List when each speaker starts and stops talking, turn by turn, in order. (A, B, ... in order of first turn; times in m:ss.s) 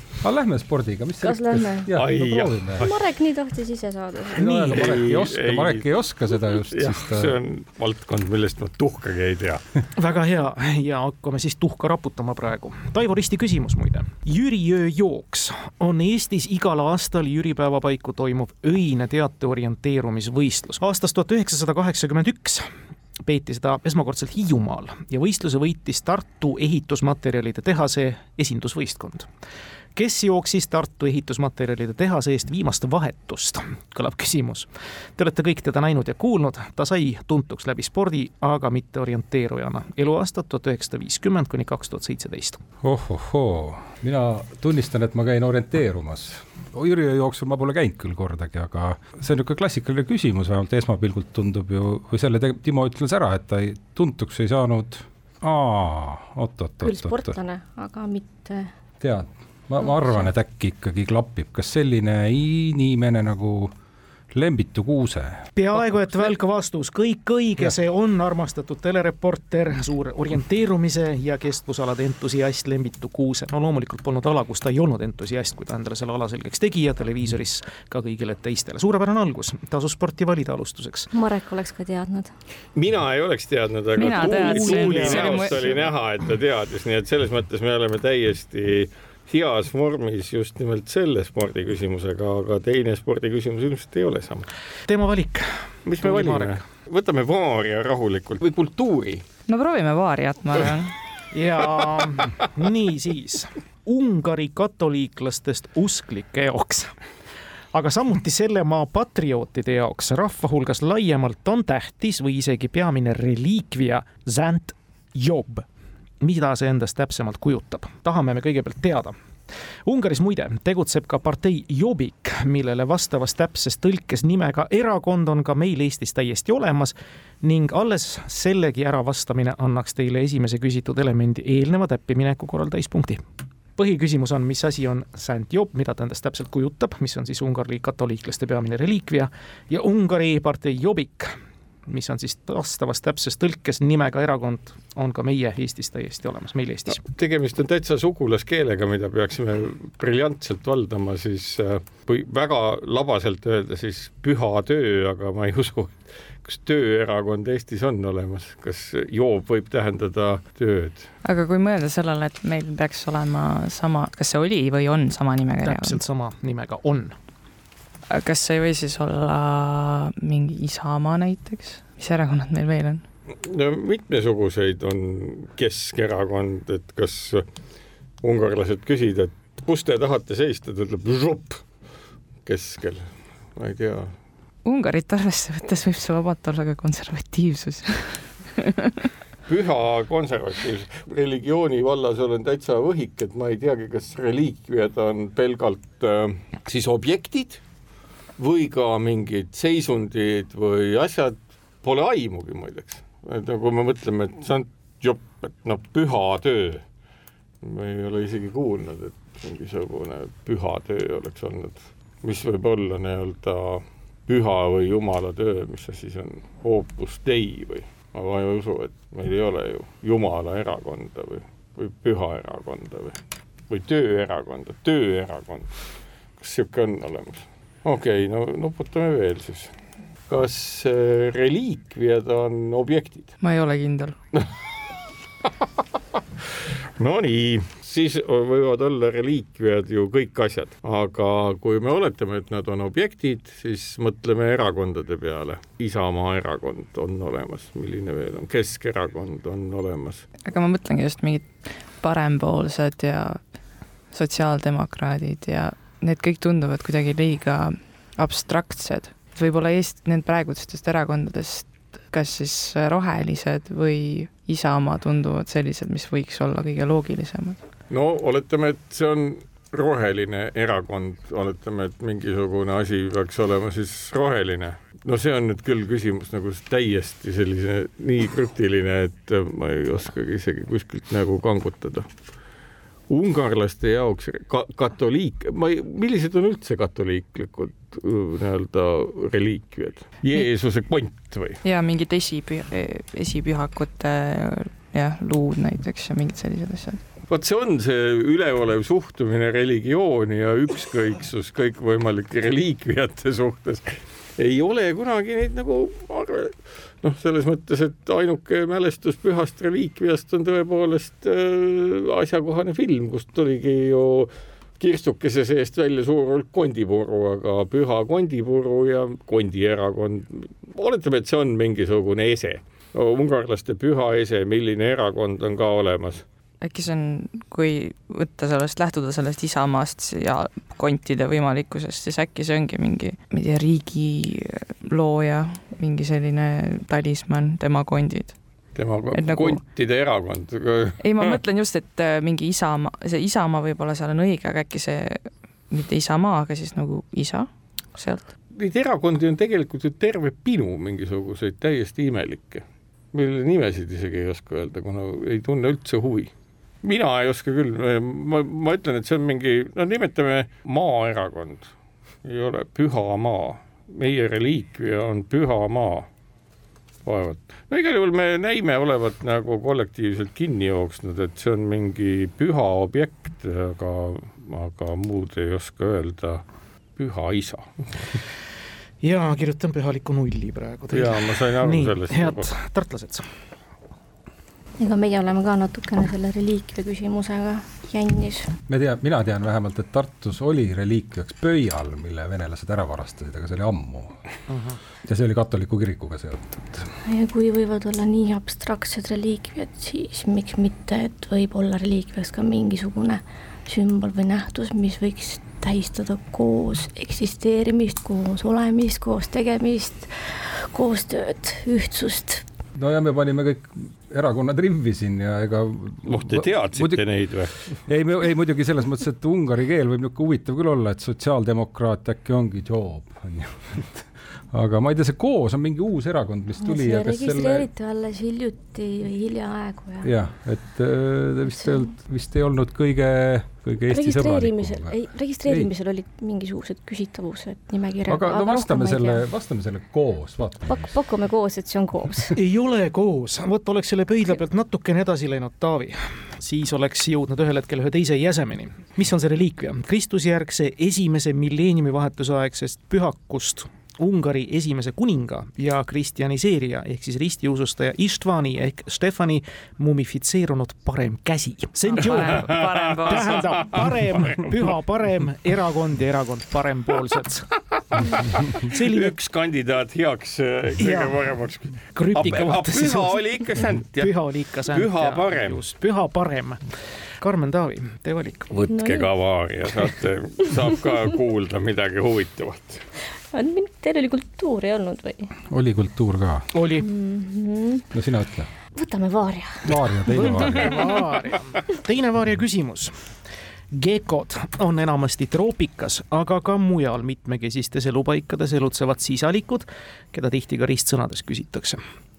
0:00.2-0:02.9 A
0:01.2-0:01.9 B
0:01.9-0:02.8 C
0:02.8-0:04.8 B
0:04.3-0:07.3 A
0:04.7-0:05.9 C
0:06.7-0:09.6 C
0:10.0-0:22.7 D
0:23.2-0:29.3 D
0:29.9-0:42.6 D
0:42.8-0:57.4 A
0:56.8-0:58.7 B
0:59.0-1:03.7 A
1:04.3-1:05.5 A
1:05.5-1:21.1 D
1:21.1-1:22.3 B
1:22.8-1:34.5 C
1:24.0-1:25.8 E
1:24.0-1:25.7 D
1:34.9-1:36.6 D
1:35.8-1:39.2 C
1:39.5-1:40.9 E
1:41.3-1:46.9 D
1:47.7-1:55.6 D
1:56.2-1:59.1 D
1:59.8-2:13.2 D
2:13.8-2:21.3 D
2:21.9-2:27.0 D
2:26.9-2:41.1 C
2:41.2-2:46.0 E
2:45.6-2:47.1 D
2:48.1-2:53.0 E
2:53.4-2:57.4 C
2:58.2-3:01.6 C
3:02.4-3:04.1 C
3:04.6-3:09.1 E
3:09.5-3:17.6 C
3:18.4-3:26.8 C
3:27.6-3:43.2 C
3:43.7-3:45.7 C
3:46.4-3:49.7 C
3:50.3-3:53.3 C
3:53.4-3:54.1 E
3:57.0-4:10.2 C
4:10.4-4:13.4 E
4:14.1-4:27.6 E
4:27.9-4:42.1 C
4:43.1-4:51.6 C
4:51.6-4:57.0 E
4:57.3-5:26.2 C
5:26.6-5:38.3 E
5:38.8-5:41.4 C
5:39.1-5:39.6 E
5:41.0-5:48.3 E
5:48.5-5:56.3 C
5:56.8-6:01.7 C
6:02.2-6:06.1 C
6:07.0-6:16.4 C
6:17.0-6:18.2 C
6:19.0-6:23.2 D
6:20.9-6:22.5 C
6:24.8-6:28.5 B
6:28.7-6:34.2 A
6:34.5-6:34.8 D
6:35.0-6:36.9 A
6:37.0-6:52.4 B
6:52.7-6:57.0 A
6:56.0-6:57.6 C
6:57.8-7:07.7 A
7:06.6-7:10.1 B
7:10.0-7:15.7 A
7:11.6-7:11.8 B
7:13.9-7:19.2 B
7:18.1-7:21.0 A
7:20.7-7:22.3 B
7:22.3-7:47.5 D
7:41.9-7:43.4 E
7:42.9-7:44.5 C
7:48.0-7:55.6 C
7:48.5-7:49.1 D
7:50.8-7:51.2 D
7:51.9-7:53.1 D
7:54.0-7:56.6 D
7:57.2-7:58.7 D
7:58.5-8:02.8 C
7:58.7-7:59.1 B
8:03.3-8:05.3 B
8:05.5-8:06.5 A
8:06.5-8:06.8 D
8:06.8-8:07.8 B
8:07.9-8:08.5 A
8:08.7-8:10.0 B
8:09.6-8:10.9 A
8:10.1-8:12.9 D
8:13.7-8:21.8 D